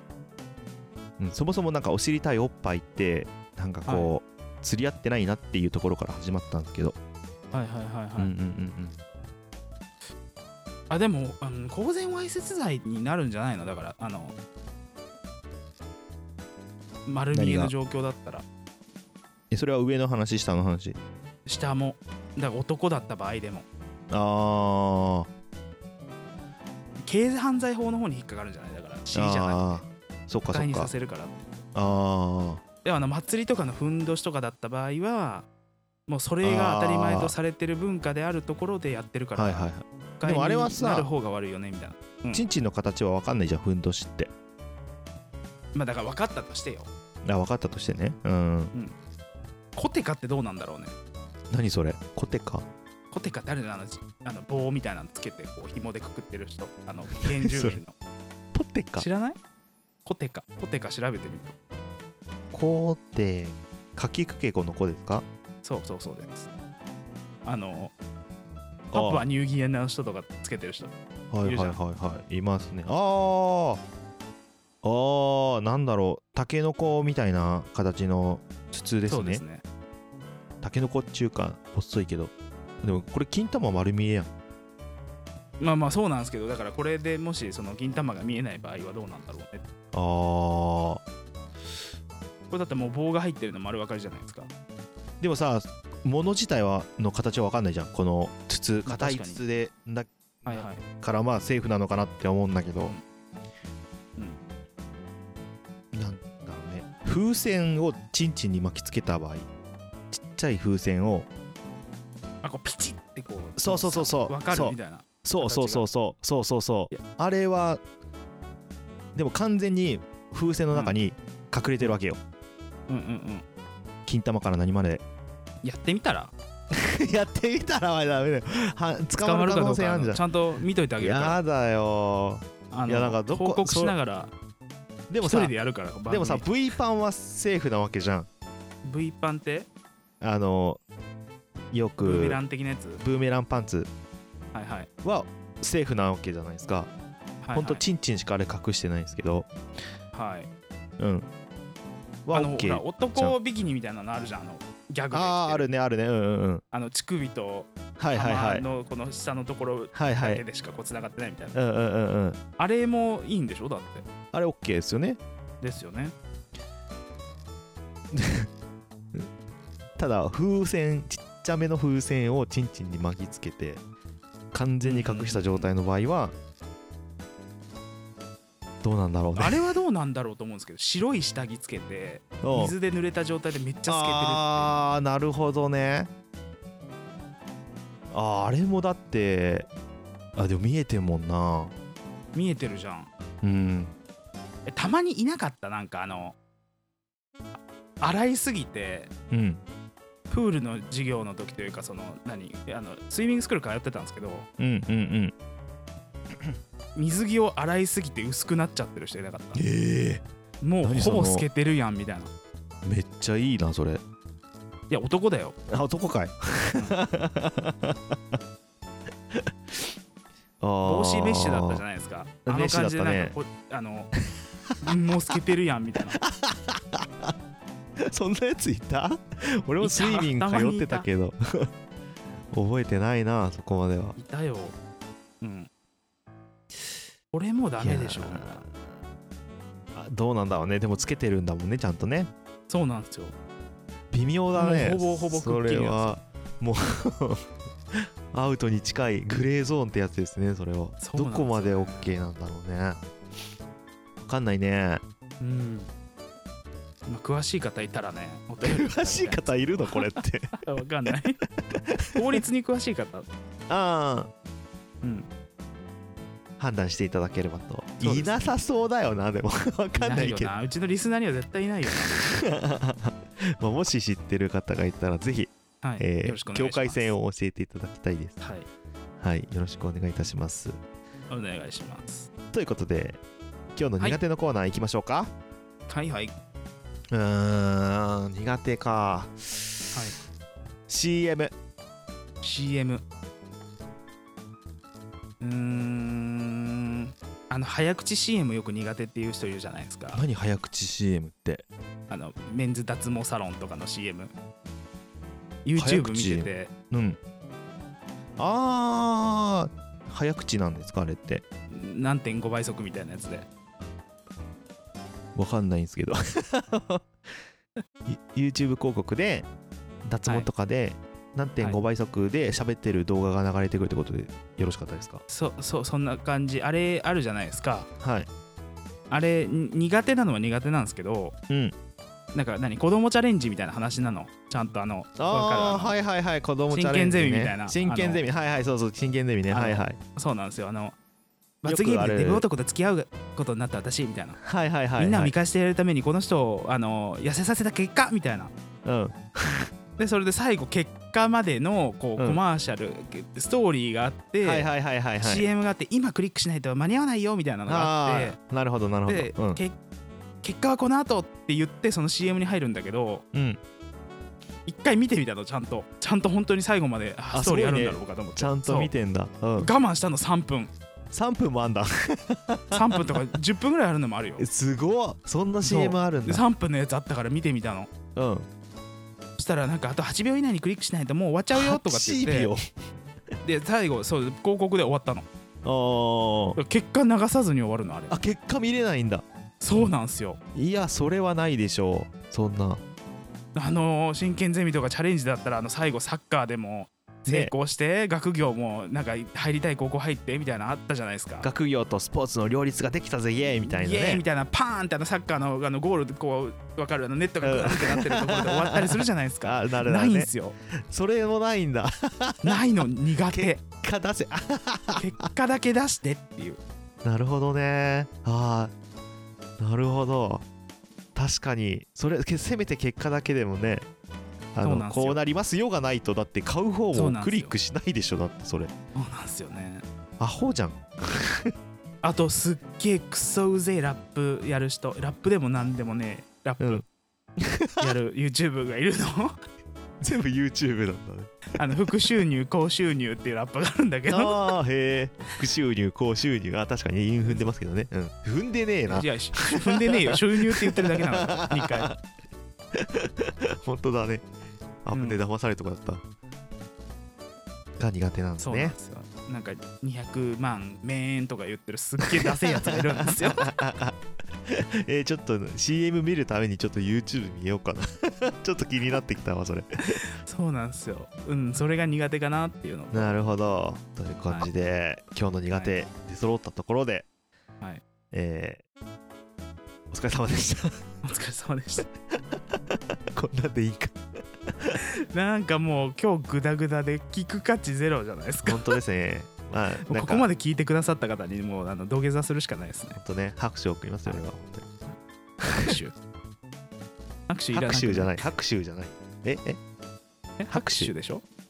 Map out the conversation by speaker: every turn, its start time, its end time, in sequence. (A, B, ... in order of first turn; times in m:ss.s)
0:01.2-0:07.0 A
0:07.5-0:08.3 B
0:08.2-0:09.0 A
0:10.9-0:14.3 B
0:17.1-0:18.4 B
0:17.3-0:17.7 A
0:19.5-0:21.0 A
0:21.5-0:23.6 B
0:24.1-0:25.3 A
0:27.0-0:29.8 B
0:29.1-0:30.9 A
0:30.5-0:31.6 B
0:31.8-0:32.6 A
0:32.8-0:35.5 B
0:36.1-0:39.7 B
0:36.4-0:37.3 A
0:39.4-0:41.1 A
0:40.2-0:42.4 B
0:42.3-0:44.3 A
0:45.7-0:46.9 B
0:47.3-0:48.7 A
0:49.8-0:50.9 B
0:51.5-0:52.6 A
0:53.1-0:57.9 B
0:57.2-0:57.8 A
0:58.5-0:59.1 A
0:59.0-0:59.4 B
1:00.0-1:01.6 B
1:02.5-1:05.3 A
1:05.6-1:06.5 B
1:07.4-1:07.9 B
1:08.9-1:09.2 A
1:08.9-1:10.9 B
1:11.3-1:13.8 A
1:11.4-1:11.8 B
1:14.8-1:19.4 A
1:19.1-1:19.6 B
1:20.6-1:24.3 A
1:25.6-1:29.7 B
1:29.9-1:31.0 A
1:32.5-1:34.5 B
1:35.2-1:43.0 A
1:38.9-1:39.4 B
1:40.5-1:40.8 B
1:45.9-1:49.5 A
1:50.1-1:51.3 A
1:52.4-1:55.9 B
1:53.6-1:57.8 A
1:59.2-2:02.2 A
2:02.9-2:03.4 B
2:04.1-2:05.0 A
2:05.6-2:06.3 B
2:06.7-2:10.2 A
2:09.2-2:11.4 B
2:11.0-2:14.0 A
2:12.7-2:14.3 B
2:15.1-2:15.5 A
2:15.2-2:16.4 B
2:16.1-2:18.3 A
2:18.8-2:19.7 B
2:20.2-2:20.8 A
2:21.7-2:22.4 A
2:22.0-2:23.0 B
2:23.0-2:23.9 A
2:24.5-2:24.9 B
2:25.0-2:26.9 A
2:27.4-2:27.8 B
2:27.5-2:29.5 A
2:30.1-2:30.5 B
2:31.0-2:31.3 A
2:32.3-2:33.4 A
2:32.3-2:35.7 B
2:35.1-2:36.6 A
2:36.7-2:41.6 B
2:38.0-2:38.6 A
2:39.9-2:40.4 A
2:41.5-2:42.4 A
2:42.6-2:44.0 B
2:44.3-2:45.2 A
2:45.6-2:46.1 B
2:48.1-2:48.5 A
2:50.0-2:53.8 A
2:54.5-2:56.3 A
2:54.8-2:55.7 B
2:58.8-2:59.7 A
2:59.4-3:04.8 B
3:02.4-3:02.8 A
3:03.9-3:06.1 A
3:08.1-3:09.7 A
3:10.4-3:11.7 A
3:12.3-3:13.1 B
3:13.4-3:13.9 A
3:14.7-3:16.4 B
3:18.0-3:19.1 B
3:19.3-3:19.6 A
3:20.3-3:24.5 B
3:24.6-3:25.3 A
3:27.0-3:29.6 B
3:29.5-3:30.2 A
3:30.6-3:32.3 B
3:30.8-3:31.5 A
3:32.8-3:34.0 A
3:34.9-3:35.6 B
3:35.7-3:38.4 A
3:39.3-3:39.9 A
3:40.6-3:41.8 A
3:40.8-3:44.1 B
3:42.4-3:43.4 A
3:44.8-3:46.2 B
3:46.2-3:47.3 A
3:48.0-3:51.7 A
3:49.8-3:51.1 B
3:52.5-3:54.2 A
3:54.2-3:54.8 B
3:55.4-3:55.7 B
3:57.3-3:58.6 B
3:57.8-3:58.8 A
3:59.9-4:02.3 A
4:02.7-4:03.3 B
4:04.1-4:13.0 A
4:04.6-4:06.2 B
4:11.0-4:12.1 B
4:14.2-4:15.0 A
4:15.4-4:15.9 B
4:17.1-4:21.4 B
4:18.6-4:20.6 A
4:21.7-4:22.4 A
4:22.2-4:23.3 B
4:23.7-4:24.3 A
4:25.0-4:25.3 B
4:26.6-4:30.5 A
4:28.0-4:28.5 B
4:30.0-4:32.4 B
4:32.0-4:38.4 A
4:35.8-4:37.1 B
4:38.4-4:38.7 B
4:39.2-4:40.8 A
4:41.3-4:42.3 B
4:42.5-4:43.2 A
4:43.7-4:45.3 A
4:45.9-4:46.3 B
4:47.1-4:50.0 A
4:50.9-4:51.5 A
4:52.4-4:53.0 B
4:55.4-5:00.2 B
5:00.1-5:01.6 A
5:02.1-5:04.3 B
5:05.6-5:06.7 B
5:05.8-5:07.2 A
5:08.4-5:11.4 A
5:11.7-5:13.5 B
5:15.4-5:17.1 A
5:18.1-5:19.5 A
5:20.1-5:25.2 A
5:25.3-5:27.9 B
5:28.0-5:28.3 A
5:29.1-5:31.4 B
5:31.5-5:31.8 A
5:32.3-5:36.0 B
5:35.2-5:40.0 A
5:36.7-5:38.2 B
5:39.5-5:41.0 B
5:41.6-5:44.4 B
5:41.6-5:42.5 A
5:44.4-5:45.3 A
5:45.0-5:48.5 B
5:48.8-5:49.7 A
5:50.0-5:58.4 B
5:54.4-5:55.5 A
5:57.7-5:59.6 A
5:59.1-5:59.8 B
6:00.4-6:03.2 B
6:03.3-6:03.6 A
6:04.7-6:08.9 B
6:07.3-6:09.7 A
6:09.6-6:10.7 B
6:11.1-6:13.4 A
6:12.7-6:14.4 B
6:14.4-6:16.4 A
6:15.6-6:17.9 B
6:18.2-6:18.5 A
6:19.4-6:22.5 B
6:21.5-6:22.7 A
6:23.4-6:25.3 B
6:25.6-6:26.6 A
6:26.6-6:28.2 B
6:28.1-6:29.2 A
6:29.6-6:30.4 B
6:30.6-6:32.8 A
6:33.6-6:41.5 B
6:37.3-6:37.5 A
6:41.4-6:44.2 A
6:43.6-6:50.6 B
6:47.4-6:55.3 A
6:52.4-6:53.6 B
6:55.0-6:56.6 B
6:57.0-6:58.7 A
6:59.6-7:00.4 A
7:01.2-7:03.9 A
7:04.5-7:08.7 A
7:04.6-7:05.2 B
7:06.9-7:07.6 B
7:09.0-7:09.8 B
7:10.2-7:11.5 A
7:12.0-7:16.8 B
7:16.6-7:16.8 A
7:17.4-7:17.9 A
7:17.8-7:19.4 B
7:20.0-7:21.6 A
7:21.6-7:24.5 B
7:24.1-7:32.0 A
7:28.9-7:31.9 B
7:32.7-7:34.3 A
7:34.8-7:36.0 A
7:34.9-7:35.2 B
7:37.8-7:38.8 A
7:38.4-7:43.6 B
7:42.0-7:50.0 A
7:50.2-7:53.2 B
7:52.9-7:57.1 A
7:58.1-7:58.6 A
7:59.9-8:00.9 A
8:01.0-8:01.9 B
8:03.1-8:04.0 A
8:04.5-8:04.8 A
8:05.0-8:08.8 B
8:08.4-8:10.3 A
8:09.8-8:13.0 B
8:13.0-8:14.7 A
8:15.4-8:15.9 B
8:15.4-8:15.8 A
8:17.3-8:18.2 B
8:17.5-8:19.6 A
8:20.4-8:21.2 B
8:20.5-8:20.9 A